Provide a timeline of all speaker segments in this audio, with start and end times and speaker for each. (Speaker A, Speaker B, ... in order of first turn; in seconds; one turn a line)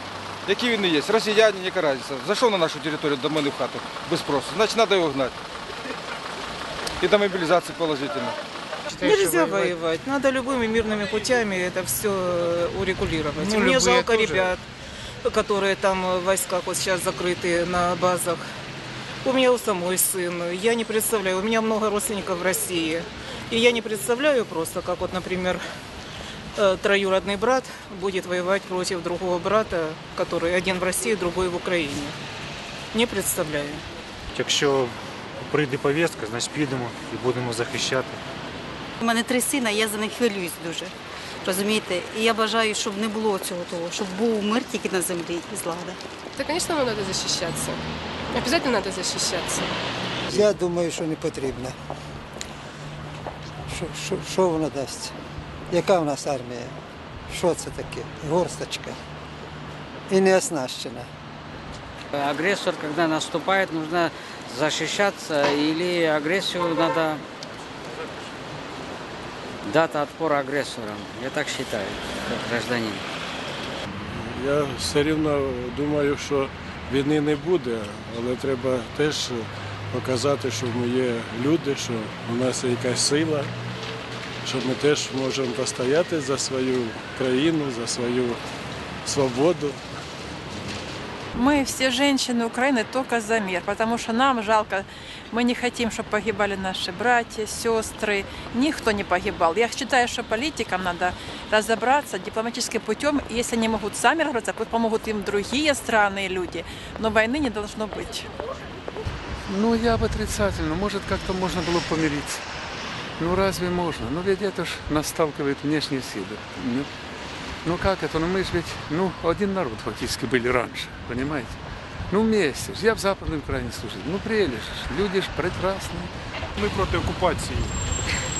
Speaker A: 0.5-5.3
Speaker A: 7.0-8.3
Speaker B: 8.9-14.6
Speaker C: 9.0-9.7
Speaker C: 13.5-14.4
Speaker B: 15.2-18.4
Speaker B: 19.2-25.6
Speaker B: 26.6-32.2
Speaker B: 32.9-33.8
Speaker D: 34.3-34.9
Speaker D: 35.5-38.2
Speaker E: 39.0-46.0
Speaker F: 46.4-49.7
Speaker G: 50.3-51.7
Speaker G: 53.7-55.1
Speaker G: 55.7-56.7
Speaker G: 57.3-59.0
Speaker G: 60.1-61.1
Speaker H: 62.1-67.2
Speaker H: 69.7-73.0
Speaker I: 74.1-83.5
Speaker I: 84.4-88.4
Speaker I: 89.0-89.8
Speaker J: 91.3-108.3
Speaker K: 109.5-112.4
Speaker K: 113.2-116.9
Speaker K: 117.6-121.6
Speaker K: 122.1-126.1
Speaker C: 126.5-127.7